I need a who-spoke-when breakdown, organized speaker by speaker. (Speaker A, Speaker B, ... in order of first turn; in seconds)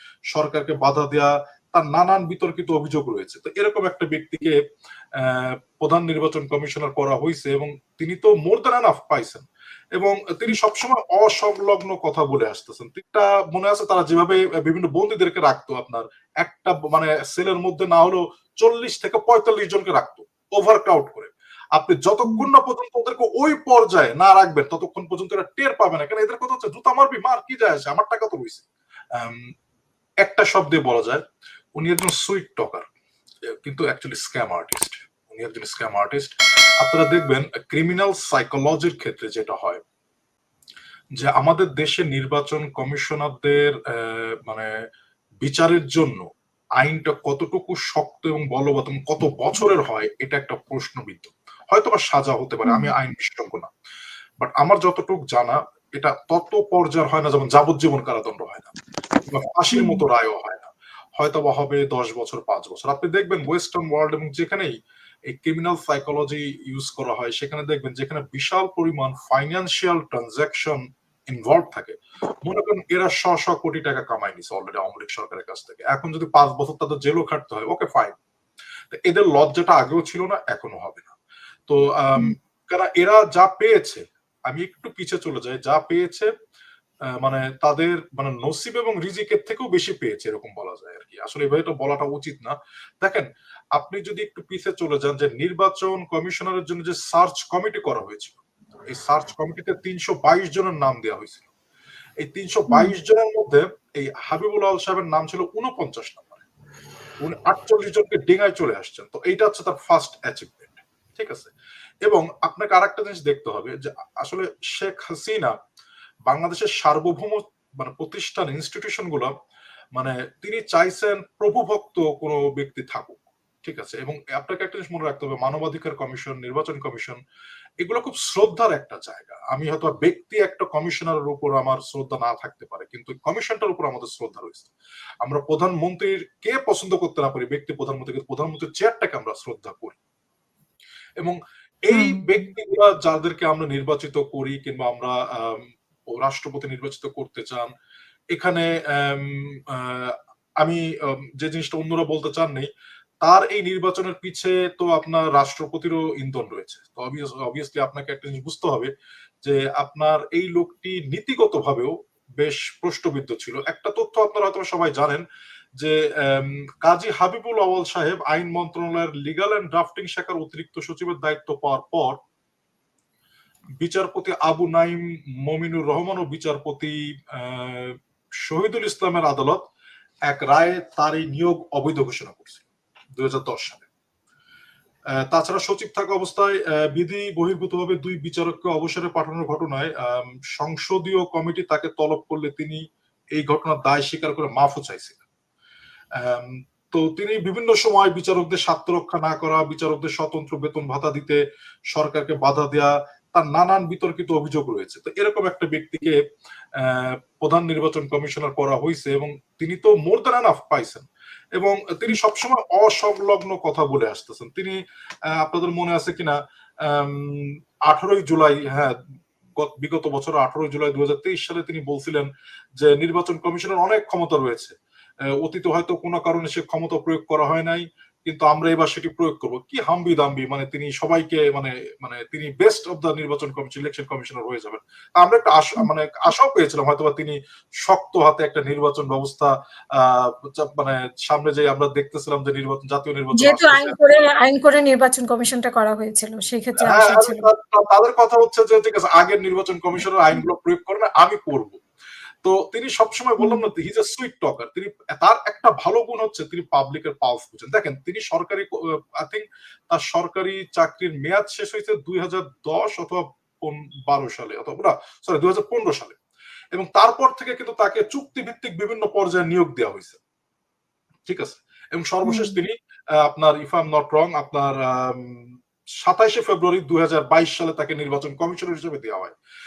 Speaker A: 0.3-4.6, 5.2-29.5, 30.2-31.2, 31.8-32.9, 33.6-39.8, 41.2-44.7, 45.4-46.3, 46.8-53.7, 54.4-58.7, 59.3-64.8, 65.3-78.2, 78.9-81.1, 81.7-86.3, 87.2-101.5, 102.2-106.4, 107.2-111.5, 112.0-115.5, 116.3-119.3, 120.0-127.2, 127.8-134.7, 135.2-140.0, 141.2-147.7, 148.3-152.7, 153.2-158.9, 159.4-165.2, 165.8-172.2, 173.8-179.6, 180.3-182.6, 183.2-183.8, 185.2-192.8, 193.3-195.2, 196.2-201.4, 201.9-206.2, 206.8-214.8, 215.3-218.9, 219.6-224.8, 225.3-244.0, 246.8-251.8, 252.4-266.2, 266.7-270.2, 271.3-279.3
Speaker B: 52.6-52.9, 59.7-60.0, 141.9-142.4, 243.3-247.5, 253.4-253.7, 272.2-272.6